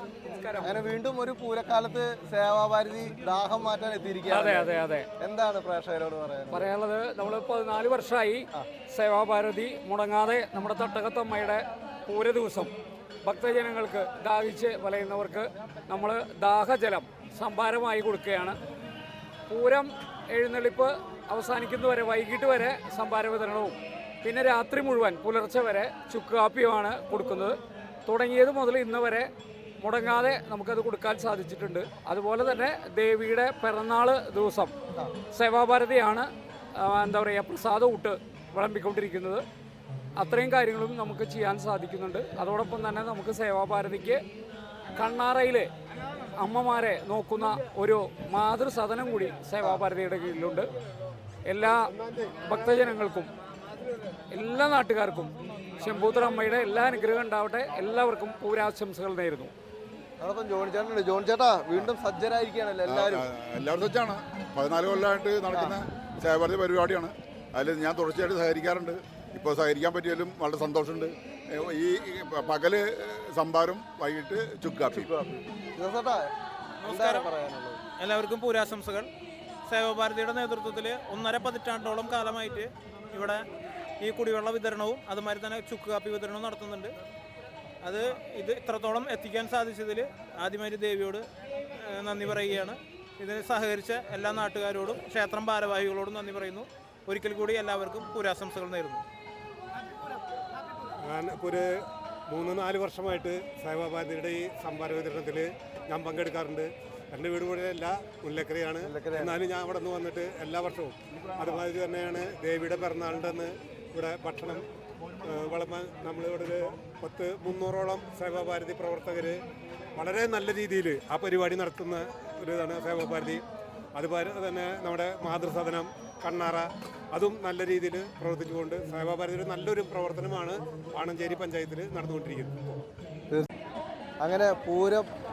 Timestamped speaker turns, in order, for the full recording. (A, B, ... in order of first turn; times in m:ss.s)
0:00.2-0:00.7 A
0:00.6-0:06.7 B
0:04.3-0:05.1 A
0:06.5-0:12.7 A
0:13.2-0:18.6 A
0:19.5-0:29.3 A
0:29.8-0:34.7 A
0:35.3-0:39.4 A
0:40.2-0:44.2 A
0:44.9-0:45.7 A
0:46.3-0:50.7 A
0:51.4-0:53.3 A
0:54.3-0:59.5 A
1:00.2-1:03.3 B
1:02.9-1:15.1 C
1:14.9-1:16.3 B
1:16.8-1:17.2 D
1:16.8-1:17.8 B
1:18.0-1:19.1 D
1:19.7-1:23.4 D
1:24.0-1:26.9 D
1:27.8-1:39.0 D
1:41.0-1:41.7 E
1:42.3-1:54.6 E
1:48.8-1:49.4 B
1:55.2-1:59.4 E
1:59.9-2:03.4 E
2:03.9-2:12.6 E
2:14.2-2:15.0 B